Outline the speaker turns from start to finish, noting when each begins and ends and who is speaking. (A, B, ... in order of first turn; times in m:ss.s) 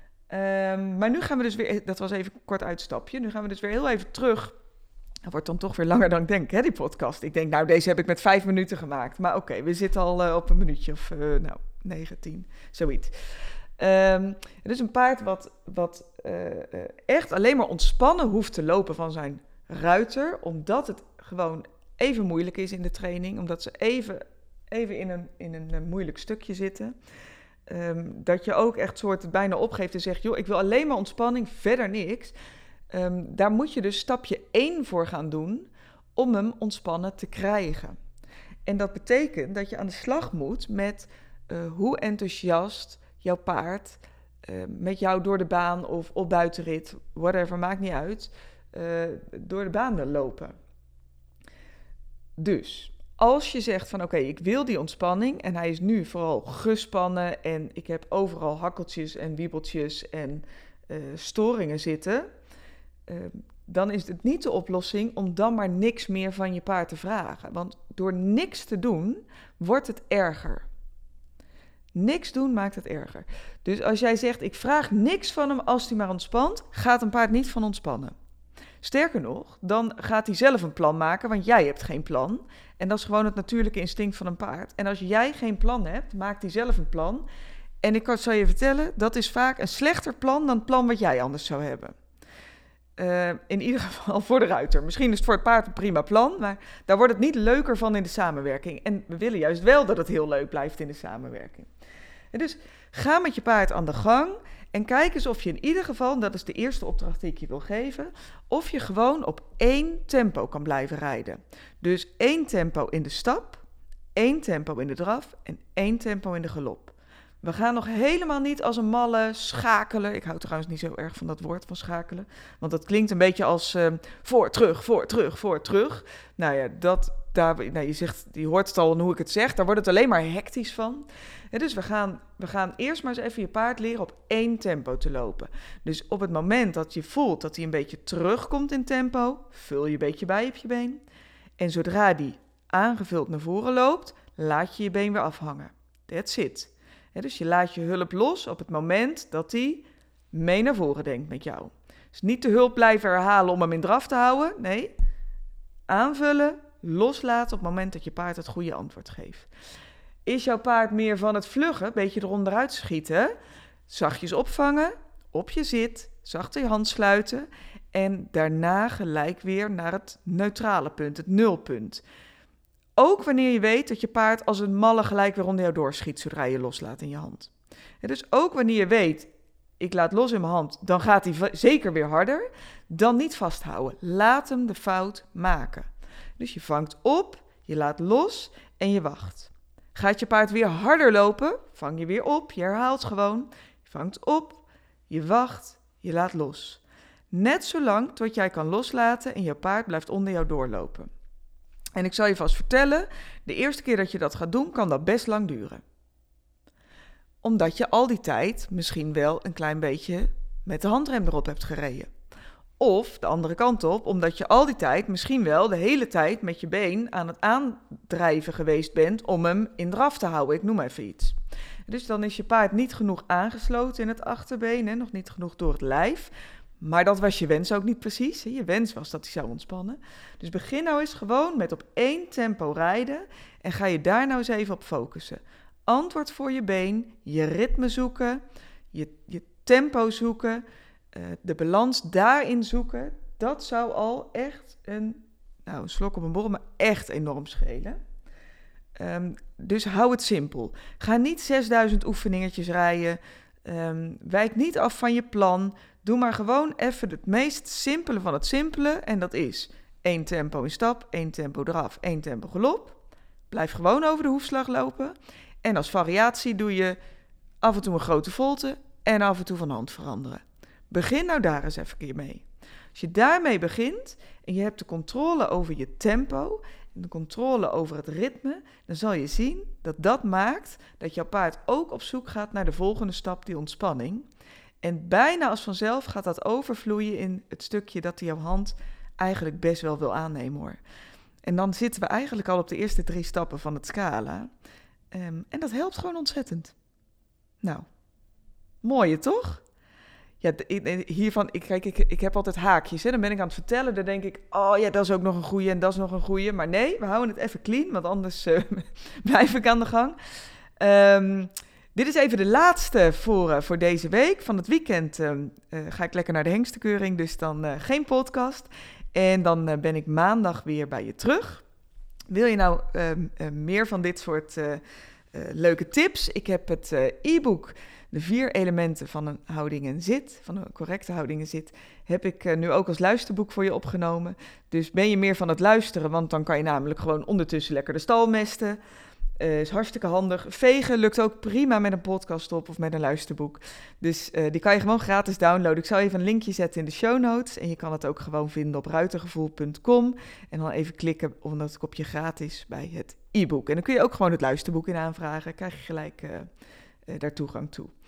0:00.3-0:04.6 A
0:05.2-0:13.1 A
0:13.8-0:26.9 A
0:27.7-0:32.3 A
0:32.9-0:38.0 A
0:38.6-0:50.5 A
0:52.4-1:02.3 A
1:03.1-1:10.6 A
1:11.9-1:18.1 A
1:18.8-1:27.2 A
1:27.8-1:31.9 A
1:33.0-1:41.7 A
1:42.3-1:53.6 A
1:54.1-2:21.0 A
2:21.6-2:34.9 A
2:35.9-2:39.5 A
2:40.2-2:43.3 A
2:43.9-2:52.0 A
2:53.0-2:57.5 A
2:58.0-3:21.1 A
3:22.0-3:25.8 A
3:27.4-3:32.1 A
3:32.8-3:41.4 A
3:41.9-4:08.0 A
4:09.0-4:23.0 A
4:23.5-4:27.0 A
4:27.6-4:44.2 A
4:44.8-4:50.8 A
4:51.4-4:54.5 A
4:55.1-4:56.8 A
4:58.8-4:59.6 A
5:00.4-5:10.2 A
5:10.8-5:21.6 A
5:22.3-5:24.8 A
5:25.3-5:38.8 A
5:39.4-5:56.5 A
5:57.1-5:57.9 A